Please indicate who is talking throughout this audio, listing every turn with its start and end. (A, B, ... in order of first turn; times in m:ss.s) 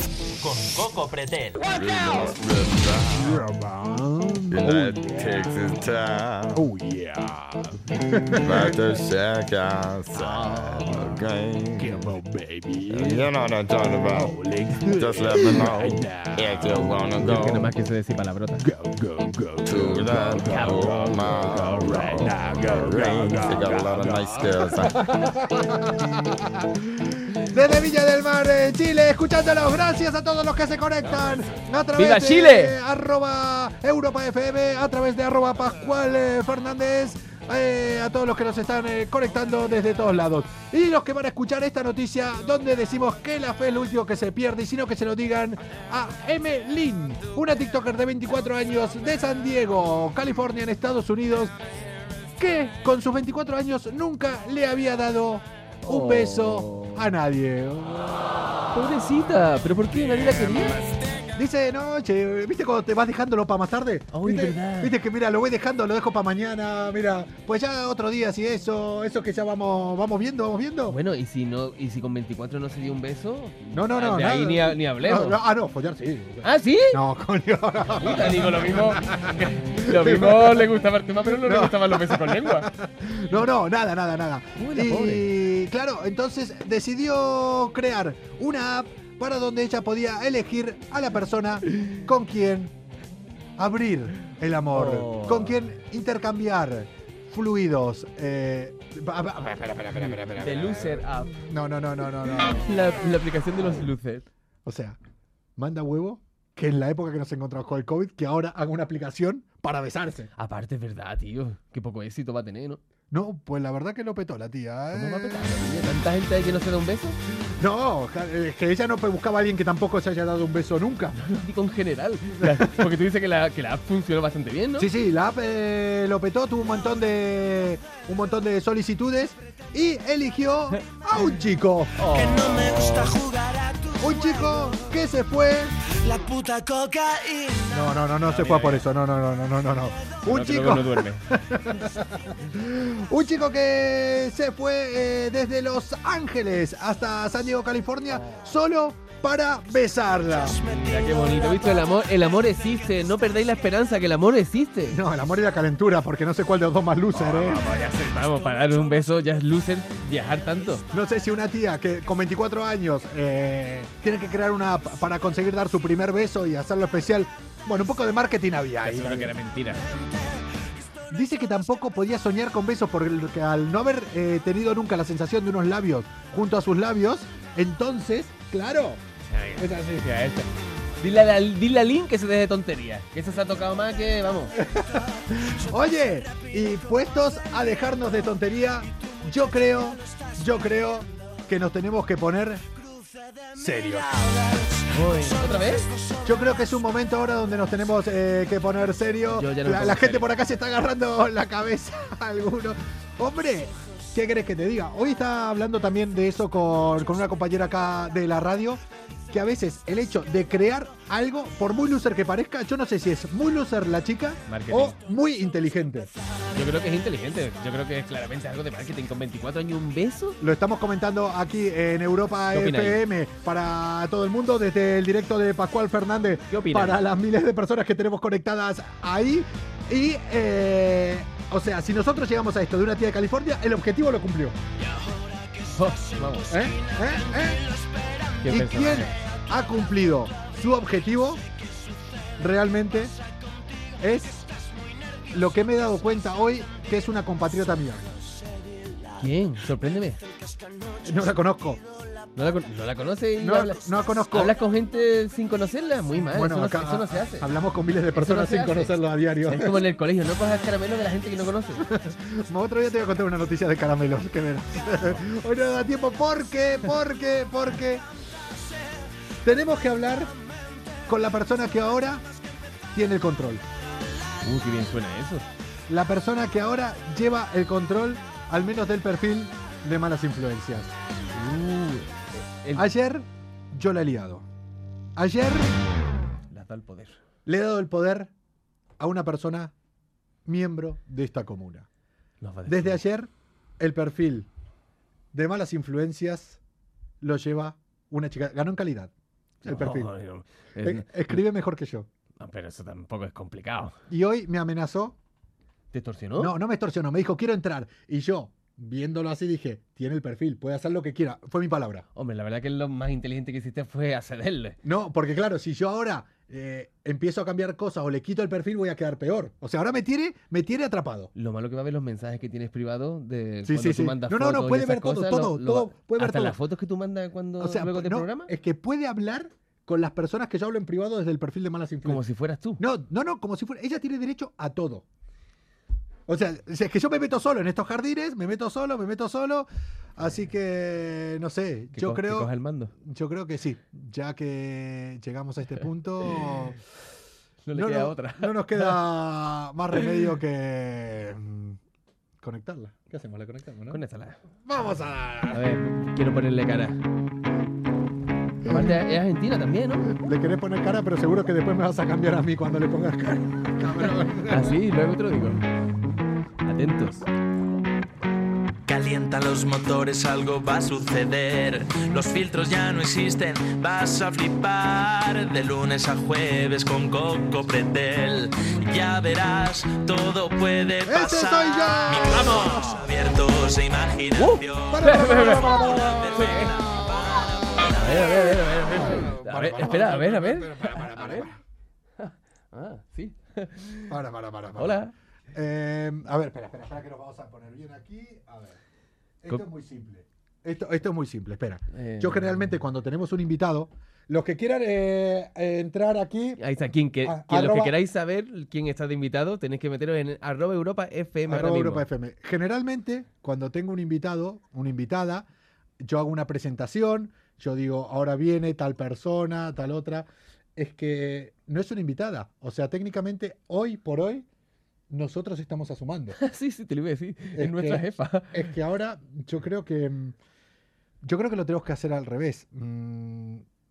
0:00.4-0:01.7 A
0:01.7-0:03.4 B
0:03.2-0:05.5 C
0:04.5-0:06.7 B
0:06.5-0:06.9 C
0:08.1-0:08.8 C
0:08.3-0:12.1 B
0:10.1-0:11.0 D
0:12.9-0:17.7 B
0:14.2-0:15.8 C
0:17.2-0:18.6 D
0:19.6-0:25.1 B
0:20.4-0:22.3 D
0:22.4-0:22.8 C
0:24.8-0:51.5 C
0:31.9-0:32.8 D
0:52.4-0:58.3 C
0:55.8-0:57.1 D
0:58.7-1:00.8 D
1:01.3-1:11.0 C
1:04.1-1:04.9 D
1:10.9-1:15.4 D
1:13.7-1:20.7 C
1:16.4-1:17.0 D
1:18.0-1:22.7 D
1:21.2-1:32.7 C
1:24.6-1:25.3 D
1:33.6-1:42.7 C
1:34.7-1:35.6 D
1:40.0-1:41.4 D
1:42.4-1:44.2 D
1:44.6-1:45.0 C
1:45.6-1:50.3 C
1:50.4-1:52.8 D
1:53.1-1:55.6 C
1:54.9-1:57.2 D
1:57.4-2:01.2 C
2:01.2-2:04.9 D
2:02.4-2:02.9 C
2:04.8-2:12.0 C
2:12.0-2:13.2 D
2:12.1-2:14.7 E
2:14.0-2:15.8 C
2:16.0-2:17.8 E
2:17.7-2:30.6 C
2:18.2-2:18.8 D
2:20.2-2:21.2 D
2:28.1-2:28.4 D
2:30.7-2:35.0 D
2:30.9-2:31.6 E
2:34.9-2:37.7 C
2:37.1-2:40.8 D
2:40.9-2:49.3 C
2:48.8-2:49.9 D
2:51.1-2:59.0 C
2:59.3-3:00.5 D
2:59.6-3:00.1 C
3:01.0-3:04.5 D
3:04.6-3:12.6 C
3:13.5-3:14.3 C
3:14.9-3:15.9 D
3:16.2-3:36.1 C
3:19.3-3:20.3 D
3:34.5-3:35.0 D
3:36.5-3:40.4 D
3:40.4-3:54.6 C
3:42.5-3:43.0 D
3:46.5-3:47.0 D
3:55.7-3:56.5 D
3:56.5-3:57.6 C
3:58.4-3:59.1 D
3:58.4-4:01.4 C
4:02.4-4:03.1 C
4:04.0-4:04.4 C
4:05.3-4:08.1 C
4:09.2-4:10.2 D
4:11.0-4:11.8 C
4:12.4-4:17.5 D
4:13.4-4:14.6 C
4:16.3-4:19.8 C
4:18.1-4:21.8 D
4:21.8-4:28.0 C
4:29.4-4:30.3 C
4:31.1-4:32.2 C
4:32.9-4:33.6 C
4:34.4-4:35.4 D
4:35.9-4:40.9 C
4:41.3-4:42.9 D
4:42.7-4:44.5 C
4:45.2-4:45.8 C
4:46.5-4:47.2 D
4:47.4-4:48.3 C
4:49.0-4:49.7 C
4:50.4-4:51.9 C
4:52.4-4:53.0 D
4:52.6-4:54.5 C
4:55.3-4:56.6 C
4:57.2-4:59.1 C
4:59.6-5:01.4 D
4:59.6-5:00.1 C
5:00.8-5:02.1 C
5:02.4-5:04.0 D
5:04.1-5:05.2 C
5:05.9-5:06.5 D
5:06.4-5:12.0 C
5:12.1-5:14.8 D
5:14.8-5:21.3 C
5:21.3-5:28.5 D
5:23.6-5:26.6 C
5:27.6-5:32.2 C
5:32.0-5:32.8 D
5:32.8-5:35.0 C
5:36.3-5:46.8 C
5:41.9-5:42.9 D
5:47.6-5:49.0 D
5:47.7-5:51.8 C
5:52.4-5:54.0 C
5:53.9-5:54.4 D
5:54.6-5:55.7 C
5:55.5-5:57.0 D
5:58.6-5:59.0 C
5:58.6-6:00.1 D
6:00.1-6:04.7 C
6:04.5-6:05.6 D
6:06.6-6:07.2 D
6:08.8-6:27.9 A
6:21.0-6:23.0 C
6:24.4-6:25.8 D
6:24.9-6:27.9 C
6:26.3-6:26.7 D
6:27.9-6:31.5 D
6:28.9-6:31.6 C
6:32.2-6:34.1 D
6:34.1-6:38.8 C
6:34.8-6:35.1 D
6:39.4-6:46.6 C
6:41.9-6:42.5 D
6:46.6-6:52.0 D
6:47.2-6:48.0 C
6:51.5-6:55.5 C
6:56.0-7:04.5 C
7:05.1-7:06.4 C
7:06.4-7:08.7 D
7:07.5-7:10.4 C
7:11.2-7:13.6 C